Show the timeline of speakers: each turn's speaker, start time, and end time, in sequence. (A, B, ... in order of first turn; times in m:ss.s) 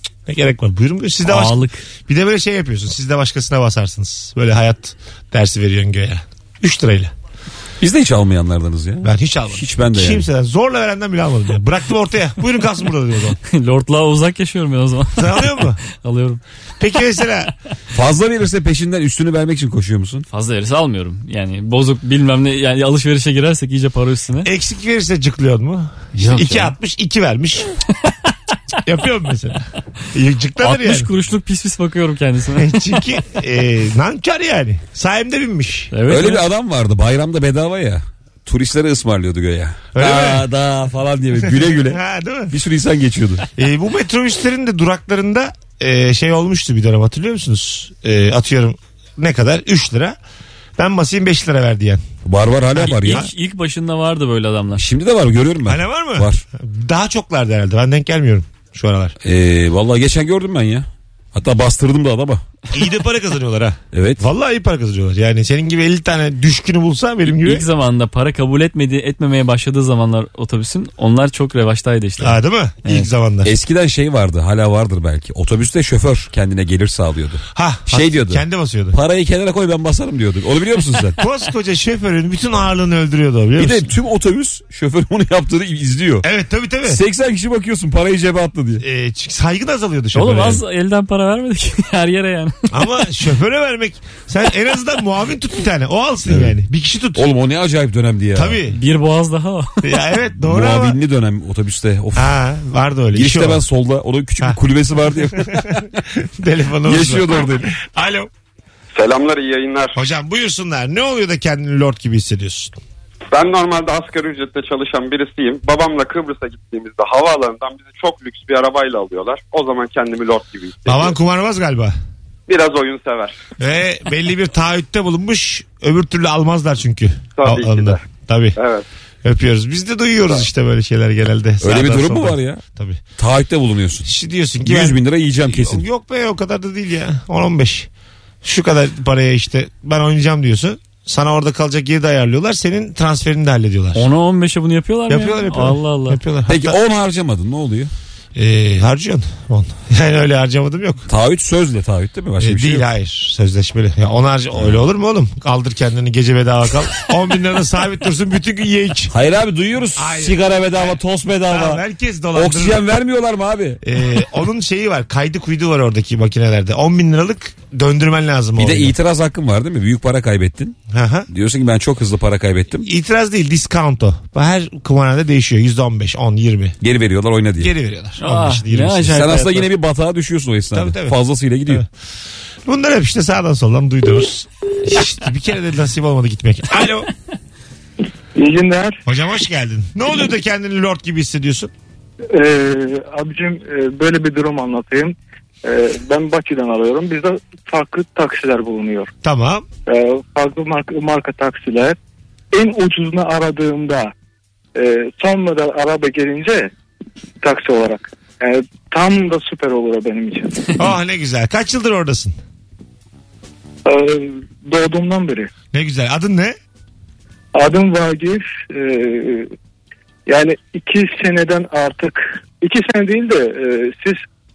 0:00.3-0:07.1 A
0:01.3-0:01.8 B
0:07.8-0:10.3 C
0:09.0-0:13.4 A
0:13.5-0:16.4 B
0:15.2-0:15.8 A
0:16.8-0:17.5 A
0:17.9-0:20.3 C
0:20.3-0:24.5 B
0:24.4-0:27.7 A
0:26.2-0:26.7 B
0:28.8-0:31.1 A
0:30.6-0:32.8 B
0:32.6-0:35.9 A
0:35.9-0:36.4 B
0:36.1-0:43.4 C
0:40.0-0:40.5 A
0:41.4-0:42.6 A
0:43.6-0:50.2 A
0:50.8-0:52.0 A
0:52.2-0:53.3 C
0:52.8-0:53.3 A
0:52.8-0:54.8 B
0:54.8-0:56.4 C
0:55.7-0:59.2 A
0:59.2-1:02.4 C
1:02.7-1:07.6 A
1:03.9-1:04.2 C
1:07.3-1:13.1 B
1:12.2-1:13.5 A
1:13.4-1:21.2 C
1:17.6-1:19.0 A
1:21.2-1:23.9 A
1:23.6-1:26.3 C
1:26.2-1:27.0 A
1:26.8-1:28.8 C
1:28.8-1:30.6 A
1:30.1-1:32.7 B
1:32.7-1:37.2 A
1:36.3-1:36.5 C
1:37.2-1:38.6 C
1:38.4-1:38.8 A
1:38.7-1:39.8 B
1:39.8-1:41.0 A
1:40.5-1:42.4 C
1:42.2-1:43.6 A
1:43.1-1:45.9 C
1:45.3-1:48.3 A
1:46.9-1:47.7 C
1:48.9-1:50.0 D
1:50.0-1:52.7 A
1:53.3-2:01.2 D
2:00.9-2:02.0 A
2:02.5-2:03.4 D
2:03.6-2:08.6 A
2:07.4-2:08.0 D
2:08.6-2:08.8 D
2:09.2-2:13.0 A
2:11.6-2:12.6 C
2:13.2-2:14.1 C
2:14.0-2:17.9 A
2:14.6-2:15.8 C
2:18.4-2:24.1 A
2:24.0-2:26.2 B
2:25.1-2:26.8 A
2:26.5-2:27.9 C
2:28.4-2:31.1 A
2:31.1-2:32.9 C
2:32.4-2:39.1 A
2:39.1-2:41.8 C
2:40.0-2:42.9 A
2:42.3-2:43.8 C
2:43.8-2:49.0 A
2:48.6-2:50.8 C
2:50.9-2:51.3 A
2:51.3-2:52.9 C
2:52.8-2:56.8 A
2:56.8-2:57.7 C
2:57.6-2:59.2 A
2:58.2-2:59.7 B
2:59.1-3:01.8 C
3:00.7-3:01.9 A
3:02.7-3:07.1 A
3:08.4-3:09.0 E
3:09.1-3:11.7 A
3:12.3-3:19.1 E
3:19.2-3:19.7 A
3:19.9-3:22.0 E
3:22.5-3:24.1 E
3:24.8-3:26.7 E
3:27.4-3:30.7 E
3:30.8-3:32.4 A
3:33.9-3:35.5 E
3:35.7-3:36.6 A
3:37.6-3:39.5 E
3:40.3-3:44.2 E